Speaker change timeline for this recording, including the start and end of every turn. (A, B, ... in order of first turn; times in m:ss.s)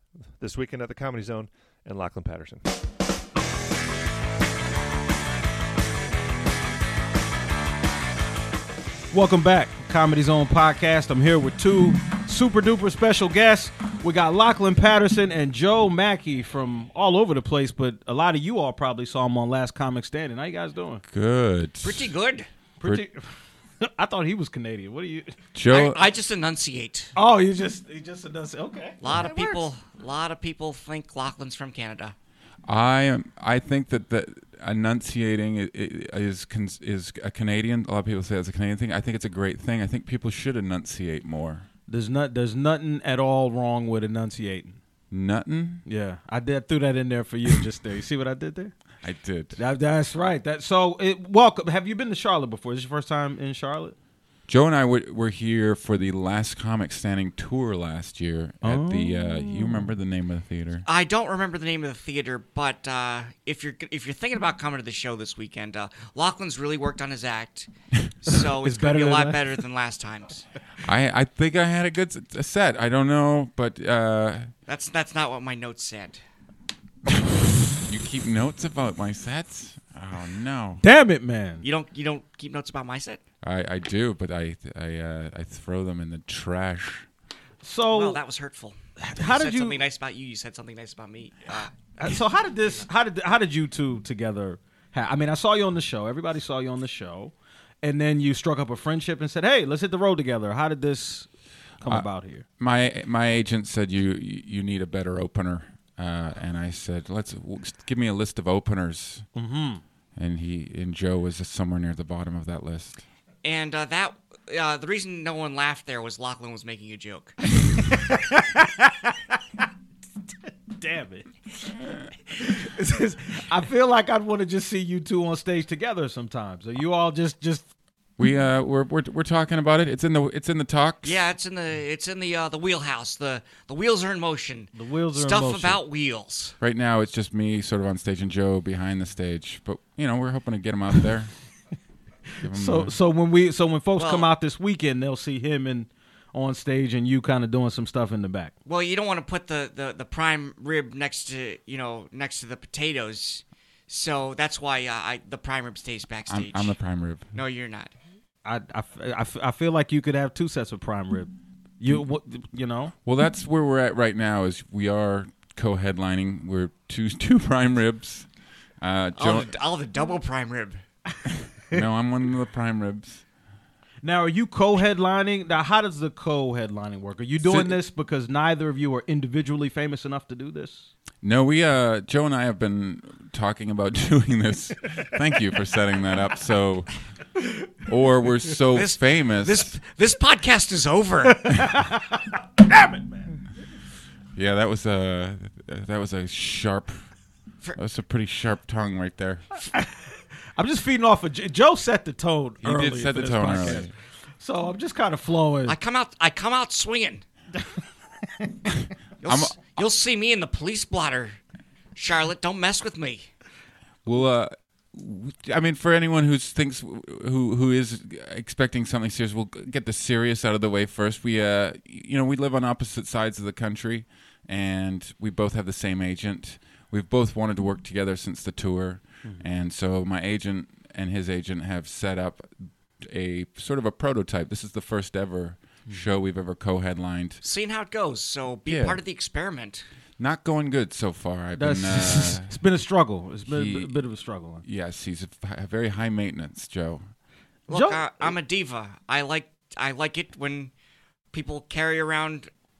0:00.4-0:02.7 A
0:09.1-0:21.0 B
0:21.1-0:22.1 C
0:21.8-0:22.5 D
0:22.8-0:25.4 B
0:25.5-0:26.0 C
0:25.7-0:27.1 D
0:27.2-0:29.6 B
0:29.0-0:32.1 D
0:32.7-0:41.6 C
0:41.9-0:44.8 B
0:45.1-0:45.8 C
0:45.8-0:48.7 B
0:49.0-0:49.6 C
0:49.6-0:53.9 B
0:54.5-1:00.8 C
0:58.6-0:59.8 B
1:00.8-1:07.7 D
1:08.2-1:10.4 D
1:08.3-1:09.6 B
1:10.8-1:14.5 C
1:14.7-1:16.2 D
1:17.8-1:20.8 C
1:20.8-1:21.6 B
1:21.6-1:23.2 D
1:23.4-1:27.1 C
1:27.6-1:28.2 B
1:27.9-1:31.7 D
1:29.0-1:29.8 B
1:32.0-1:41.3 B
1:41.8-1:42.4 B
1:42.6-1:49.2 C
1:49.3-1:49.8 B
1:50.2-1:53.0 C
1:53.4-1:57.4 D
1:57.8-1:59.4 B
2:00.7-2:07.7 B
2:08.2-2:11.3 C
2:11.0-2:16.6 D
2:14.7-2:15.8 B
2:16.6-2:21.3 C
2:22.4-2:28.5 B
2:22.4-2:22.9 C
2:24.0-2:24.3 D
2:28.7-2:36.7 D
2:36.3-2:37.2 C
2:37.3-2:37.9 D
2:38.4-2:42.9 B
2:43.0-2:48.3 C
2:48.8-2:49.5 C
2:49.2-2:50.8 D
2:51.7-2:53.2 C
2:54.0-3:00.9 B
2:57.4-2:57.8 C
3:01.2-3:06.9 C
3:07.8-3:09.7 C
3:08.7-3:11.7 D
3:11.3-3:13.4 B
3:14.3-3:17.0 C
3:17.8-3:19.4 C
3:19.6-3:25.8 B
3:22.6-3:23.9 C
3:25.6-3:27.2 D
3:29.2-3:31.4 D
3:29.2-3:29.6 C
3:32.0-3:33.3 D
3:34.0-3:57.4 C
3:57.4-3:59.9 D
3:58.7-3:59.0 C
4:00.2-4:02.6 C
4:01.6-4:04.6 B
4:03.4-4:04.0 C
4:04.6-4:07.1 C
4:07.7-4:10.7 D
4:07.7-4:08.3 B
4:11.3-4:12.5 D